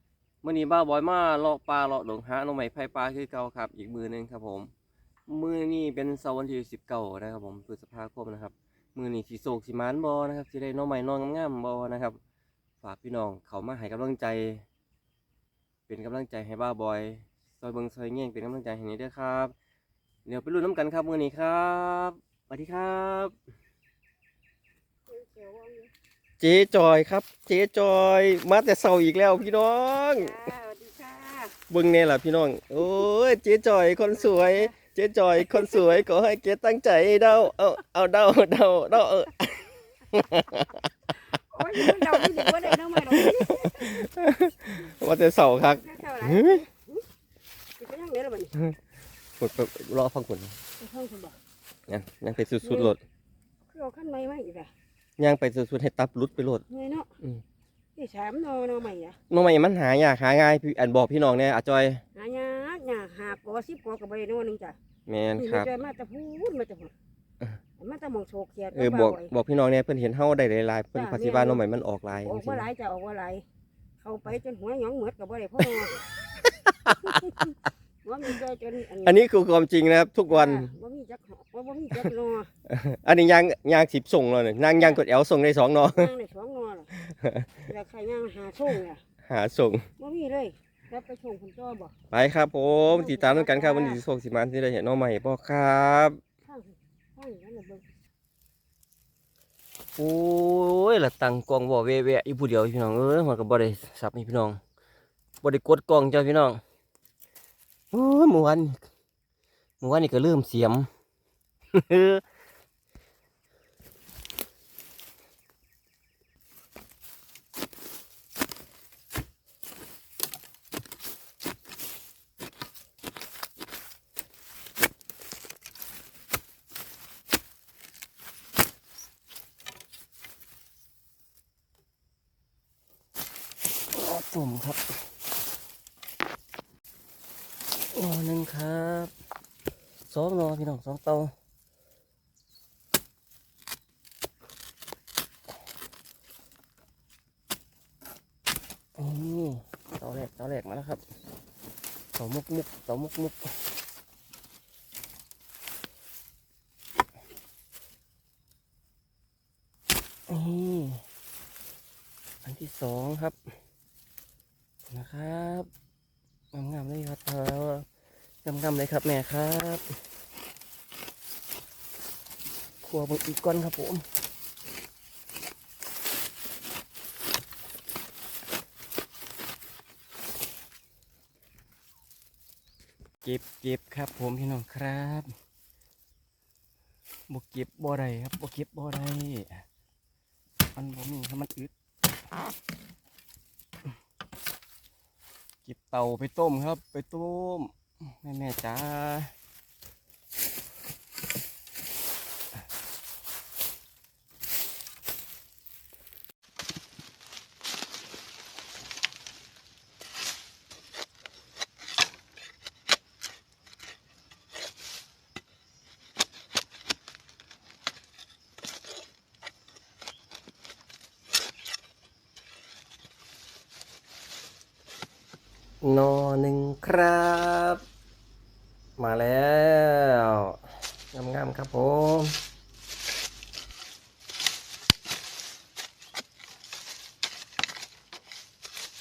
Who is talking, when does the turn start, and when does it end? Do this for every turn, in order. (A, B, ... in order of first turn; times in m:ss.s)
0:00.4-0:04.7 A
0:05.3-0:12.2 A
0:12.8-0:14.6 A
0:15.9-0:19.5 A
0:20.2-0:23.3 A
0:25.1-0:25.9 B
0:26.4-0:30.3 A
0:30.1-0:31.5 B
0:31.7-0:40.8 A
0:34.1-0:34.7 B
0:41.3-0:44.0 B
0:41.8-0:46.6 A
0:45.7-0:47.0 B
0:47.8-0:48.6 B
0:49.4-0:50.5 A
0:50.8-0:51.4 B
0:51.9-0:53.0 A
0:52.6-0:52.9 B
0:53.7-0:54.7 B
0:55.2-0:56.6 A
0:56.7-0:57.1 B
0:58.0-0:59.2 B
0:59.3-1:02.0 A
1:02.1-1:04.8 B
1:05.1-1:05.7 A
1:05.4-1:06.9 B
1:07.8-1:09.3 B
1:08.7-1:12.7 A
1:10.9-1:11.6 B
1:12.2-1:13.4 B
1:14.0-1:16.0 B
1:16.4-1:17.2 A
1:18.0-1:19.2 B
1:19.0-1:20.7 A
1:20.3-1:22.5 B
1:22.7-1:26.1 A
1:24.7-1:25.0 B
1:25.9-1:26.9 B
1:26.9-1:27.7 A
1:27.6-1:29.0 B
1:29.3-1:29.9 A
1:30.0-1:31.9 B
1:32.1-1:36.2 A
1:32.9-1:34.0 B
1:36.5-1:37.8 B
1:40.0-1:44.6 A
1:45.4-1:46.6 A
1:47.9-1:48.8 A
1:49.8-1:50.9 A
1:51.7-1:52.2 A
2:13.9-2:14.8 A
2:17.9-2:19.1 A
2:20.1-2:21.3 A
2:29.0-2:31.0 A
2:32.2-2:33.5 A
2:40.3-2:41.0 A
2:42.4-2:43.4 A
2:44.9-2:45.7 A
2:46.5-2:47.8 A
2:48.4-2:49.9 A
2:52.8-2:54.0 A
3:03.2-3:05.3 A
3:07.3-3:09.6 A
3:10.7-3:11.7 A
3:15.6-3:19.3 A
3:45.8-3:47.8 A
3:49.0-3:50.6 A
3:51.1-3:52.4 A